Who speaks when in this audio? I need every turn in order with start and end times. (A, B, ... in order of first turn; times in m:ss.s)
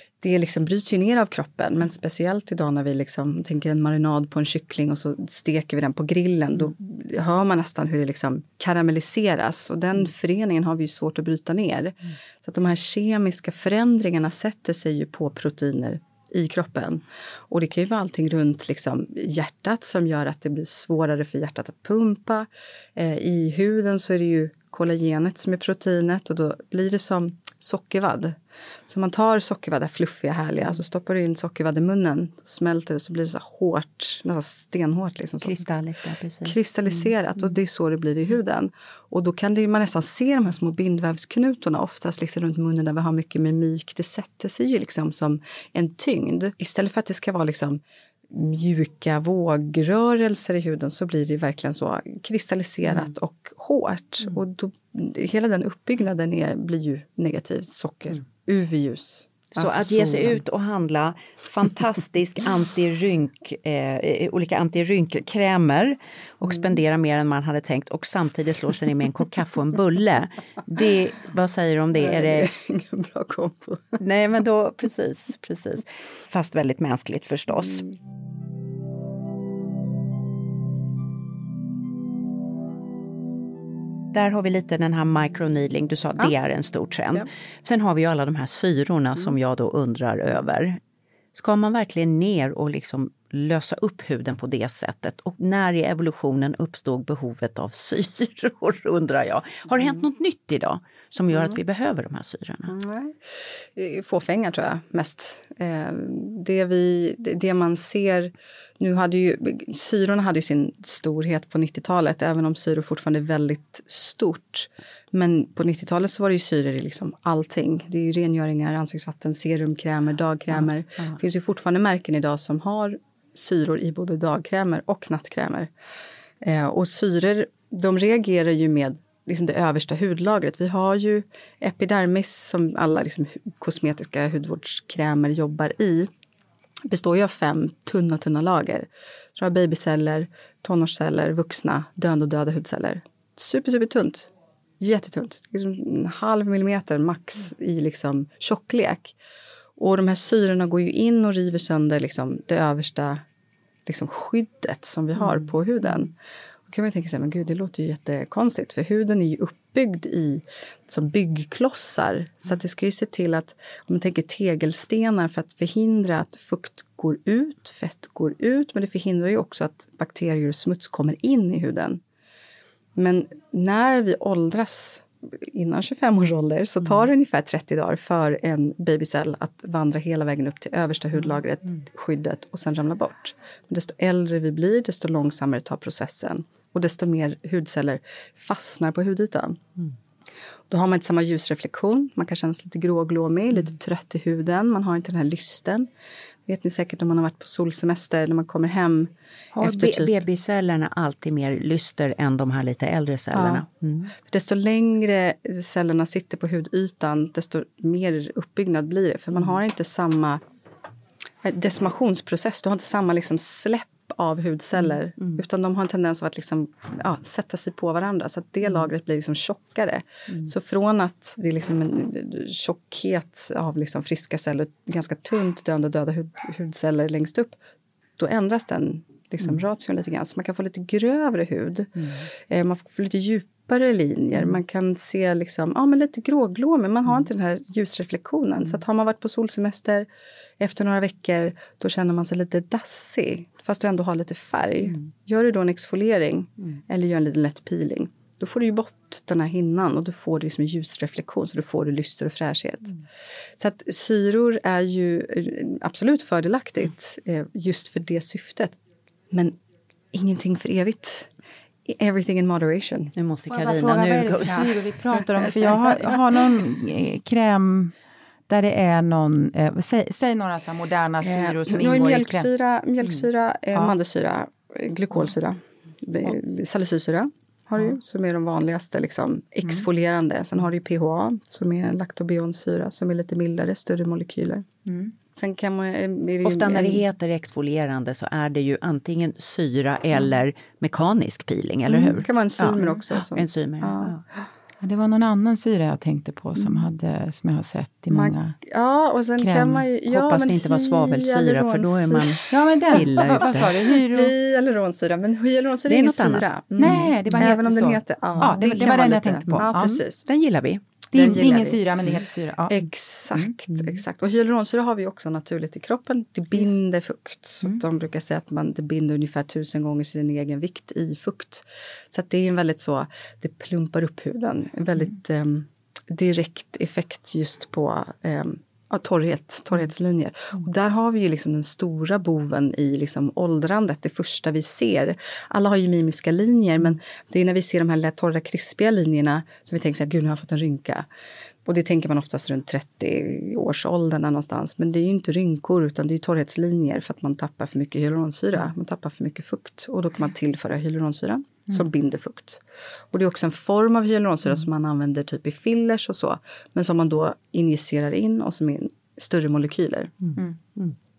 0:00.2-0:35.6 A
0:35.4-0:37.1 B
0:36.4-0:47.8 A
0:48.3-1:00.4 A
0:59.5-1:12.5 B
1:12.0-1:14.0 A
1:14.0-1:17.9 B
1:24.1-1:30.8 B
1:31.3-1:42.7 B
1:42.7-1:43.2 A
1:43.7-2:05.7 A
2:00.5-2:01.2 B
2:06.4-2:16.1 A
2:16.9-2:29.1 A
2:29.8-2:33.2 A
2:33.8-2:36.1 A
2:36.7-2:52.0 A
2:53.0-3:09.6 A
3:10.7-3:15.9 A
3:16.5-3:20.1 A
3:19.5-3:24.1 B
3:23.3-3:23.6 A
3:24.2-3:30.4 A
3:31.4-3:47.6 A
3:48.2-3:51.9 A
3:52.0-3:52.3 B
3:52.5-4:00.1 A
4:00.6-4:13.0 A
4:13.6-4:18.8 A
4:19.3-4:19.6 A
4:20.1-4:21.3 A
4:21.9-4:23.1 A
4:23.2-4:24.8 B
4:23.5-4:27.9 C
4:24.4-4:24.7 A
4:25.5-4:26.1 A
4:28.5-4:32.5 C
4:31.2-4:44.6 A
4:44.8-4:45.1 C
4:45.3-4:47.0 A
4:46.4-4:54.2 B
4:51.9-4:54.2 A
4:54.8-4:58.6 C
4:58.1-5:10.2 A
4:59.4-4:59.8 C
5:00.1-5:03.7 B
5:02.5-5:04.3 C
5:05.8-5:07.1 B
5:06.8-5:10.0 C
5:10.2-5:10.8 B
5:11.1-5:12.8 C
5:11.1-5:11.8 A
5:12.7-5:41.0 A
5:13.3-5:14.0 C
5:41.6-6:00.1 A
6:00.2-6:00.8 B
6:00.4-6:00.9 C